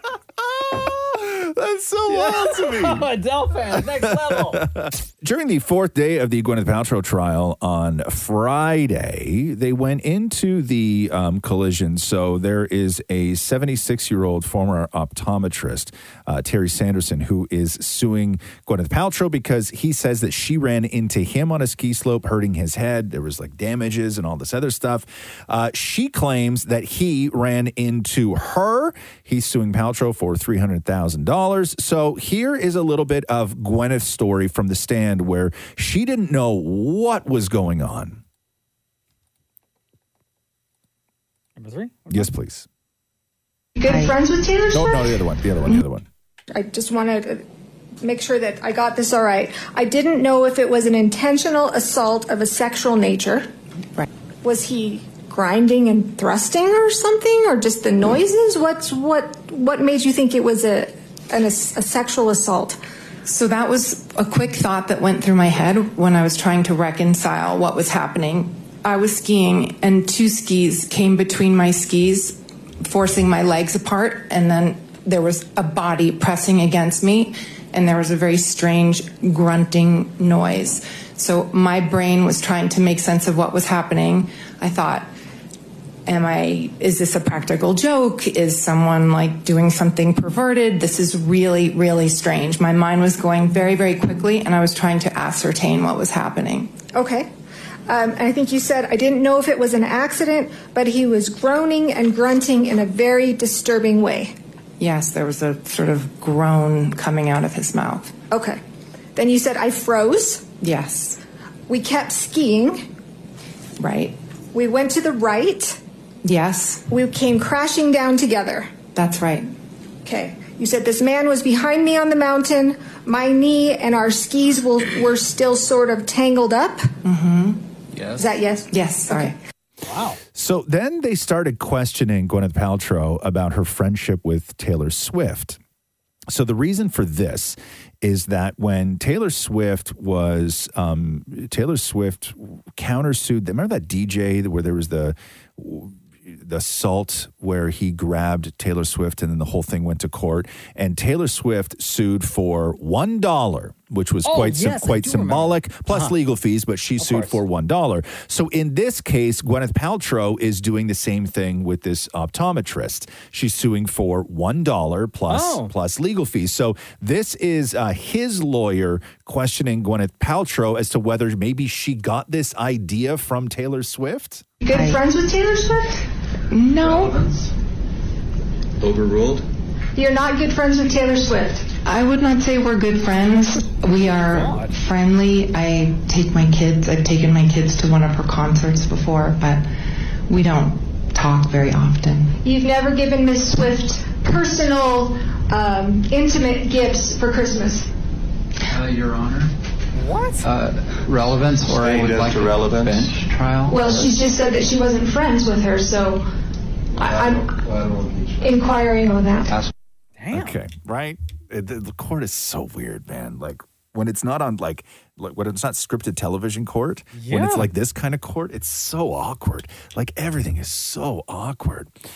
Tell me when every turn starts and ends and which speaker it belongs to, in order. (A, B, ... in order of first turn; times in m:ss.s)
0:00.5-0:03.1 A
0:02.1-0:04.6 B
0:03.8-0:38.2 A
0:41.6-0:42.3 B
0:42.1-0:42.7 A
0:43.8-0:45.2 C
0:43.9-0:44.1 D
0:44.7-0:46.1 A
0:46.5-0:47.4 C
0:48.0-0:53.5 C
0:54.4-1:02.8 C
1:03.3-1:25.1 D
1:26.1-1:36.8 D
1:36.9-1:37.3 C
1:37.9-1:44.4 C
1:44.8-1:48.1 D
1:48.3-1:48.6 C
1:49.2-1:50.5 C
1:50.6-1:51.2 D
1:51.7-1:52.8 C
1:53.8-1:54.2 D
1:54.5-1:55.8 C
1:56.2-1:56.8 D
1:56.9-1:58.8 C
1:58.9-1:59.5 D
2:00.0-2:06.9 C
2:07.0-2:07.6 D
2:08.2-2:09.3 C
2:08.7-2:09.4 D
2:09.8-2:10.2 B
2:10.3-2:15.6 A
2:16.3-2:54.4 A
2:34.2-2:36.1 B
2:37.0-2:37.4 B
2:45.3-2:45.7 B
2:54.6-2:56.0 C
2:54.7-2:55.0 D
2:56.5-2:57.2 D
2:56.8-2:57.5 E
2:58.9-2:59.4 E
3:00.0-3:01.7 C
3:01.8-3:09.6 D
3:04.3-3:04.7 B
3:10.3-3:12.4 D
3:12.4-3:17.9 C
3:18.7-3:19.5 E
3:20.0-3:20.4 B
3:20.4-3:24.1 E
3:23.7-3:26.2 C
3:27.0-3:27.6 C
3:28.4-3:29.6 C
3:30.2-3:30.5 B
3:30.3-3:41.9 A
3:37.2-3:37.7 B